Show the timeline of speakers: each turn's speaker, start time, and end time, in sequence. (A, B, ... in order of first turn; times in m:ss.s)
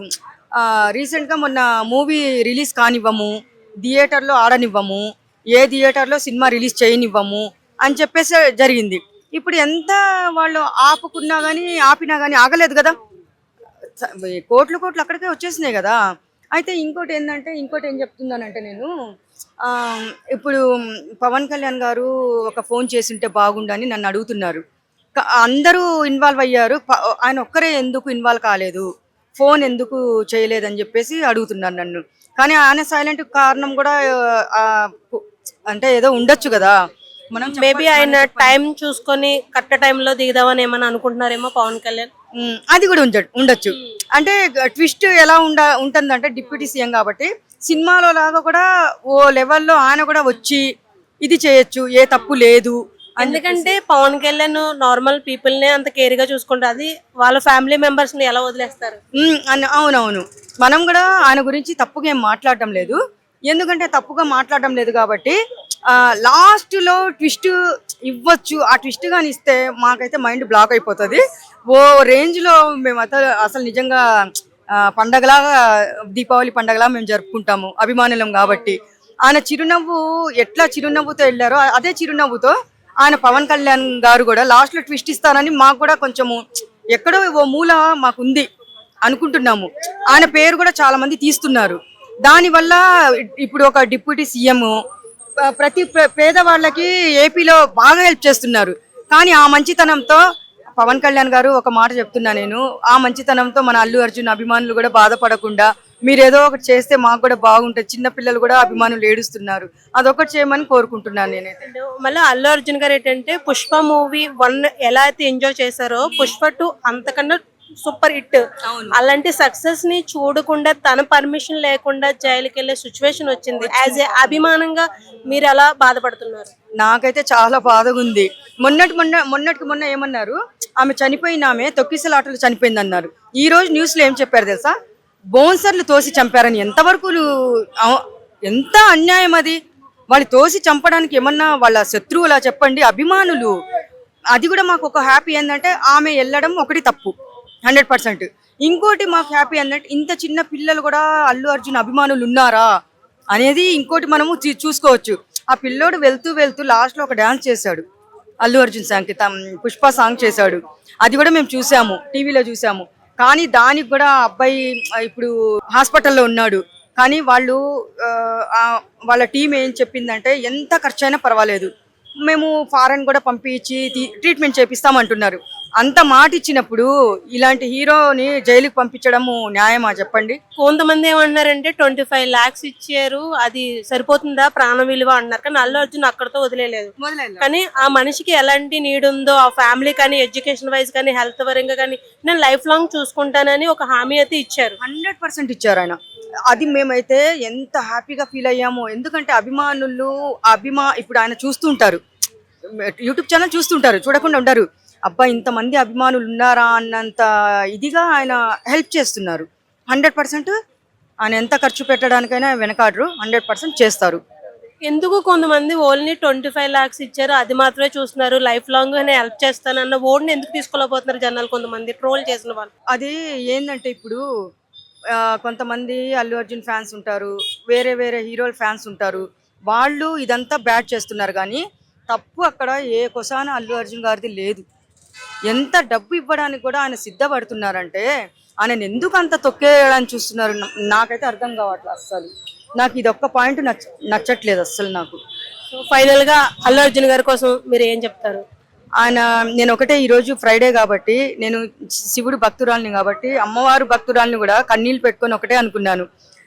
0:00.6-0:03.3 A
0:03.8-0:12.9 A
0:14.0-0:16.0 A
0:16.5-0:18.9 A
0:19.6-0:20.6 A
0:21.2-0:24.6 A
0:25.2-0:34.0 A
0:34.5-0:36.8 A
0:37.3-0:38.6 A
0:37.5-0:42.1 B
0:42.4-0:50.6 A
0:51.2-0:53.7 A
0:53.2-0:59.0 B
0:59.2-1:14.0 A
1:14.8-1:26.4 A
1:26.9-1:28.5 A
1:29.0-1:34.7 A
1:35.4-1:40.2 A
1:40.8-1:51.6 A
1:51.6-1:58.4 B
1:58.7-1:58.9 A
1:58.9-2:06.5 B
2:03.6-2:04.4 A
2:06.8-2:14.7 A
2:15.3-2:17.3 A
2:17.8-2:19.6 A
2:20.1-2:23.5 A
2:24.3-2:27.1 A
2:27.6-2:32.7 A
2:33.3-2:37.8 A
2:38.4-2:51.7 A
2:52.2-3:00.4 A
3:00.6-3:14.8 B
3:07.0-3:07.5 A
3:14.8-3:16.0 A
3:16.5-3:22.0 A
3:22.9-3:30.5 A
3:31.2-3:34.2 A
3:34.8-3:42.7 B
3:42.9-3:44.2 A
3:45.1-3:54.6 A
3:55.5-3:58.1 A
3:58.6-4:05.2 A
4:05.7-4:08.4 B
4:09.0-4:16.1 A